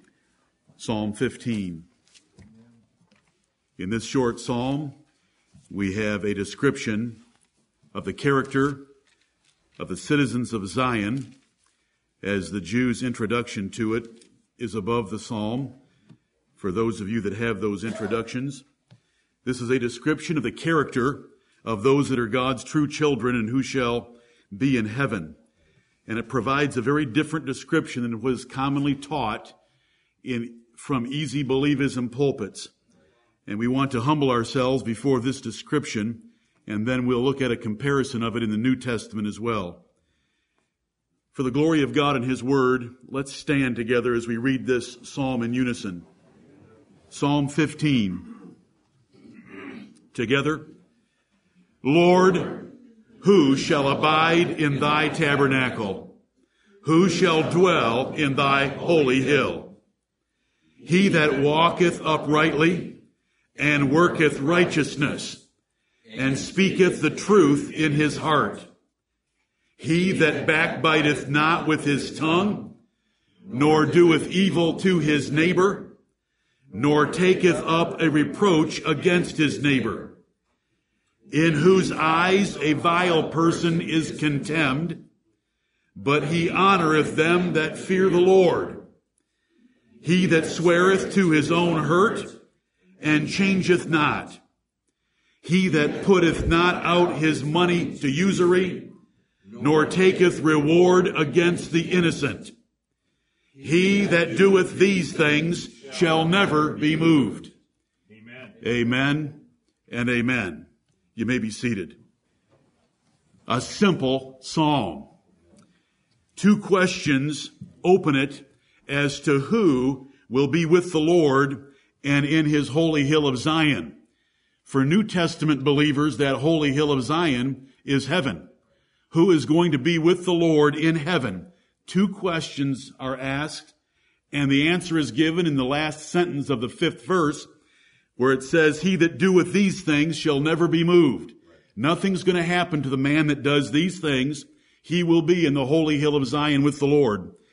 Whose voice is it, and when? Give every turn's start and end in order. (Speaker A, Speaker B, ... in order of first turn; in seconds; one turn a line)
Speaker A: 0.8-1.9
Speaker A: 3.8-5.0
Speaker A: 5.7-7.2
Speaker A: 7.9-8.9
Speaker A: 9.8-11.3
Speaker A: 12.2-15.8
Speaker A: 16.6-18.6
Speaker A: 19.4-25.4
Speaker A: 26.1-29.6
Speaker A: 30.2-32.7
Speaker A: 33.5-39.8
Speaker A: 41.3-46.1
Speaker A: 47.1-48.3
Speaker A: 50.1-50.7
Speaker A: 51.8-56.2
Speaker A: 56.8-59.8
Speaker A: 60.8-63.0
Speaker A: 63.6-65.4
Speaker A: 66.2-68.7
Speaker A: 69.8-72.8
Speaker A: 73.5-75.9
Speaker A: 76.7-80.2
Speaker A: 81.3-85.1
Speaker A: 86.0-88.8
Speaker A: 90.0-92.4
Speaker A: 93.0-94.4
Speaker A: 95.4-98.9
Speaker A: 99.6-102.5
Speaker A: 103.6-107.5
Speaker A: 108.6-112.0
Speaker A: 113.5-115.2
Speaker A: 116.4-124.0
Speaker A: 124.7-128.5
Speaker A: 129.1-133.8
Speaker A: 134.3-137.5
Speaker A: 138.2-147.3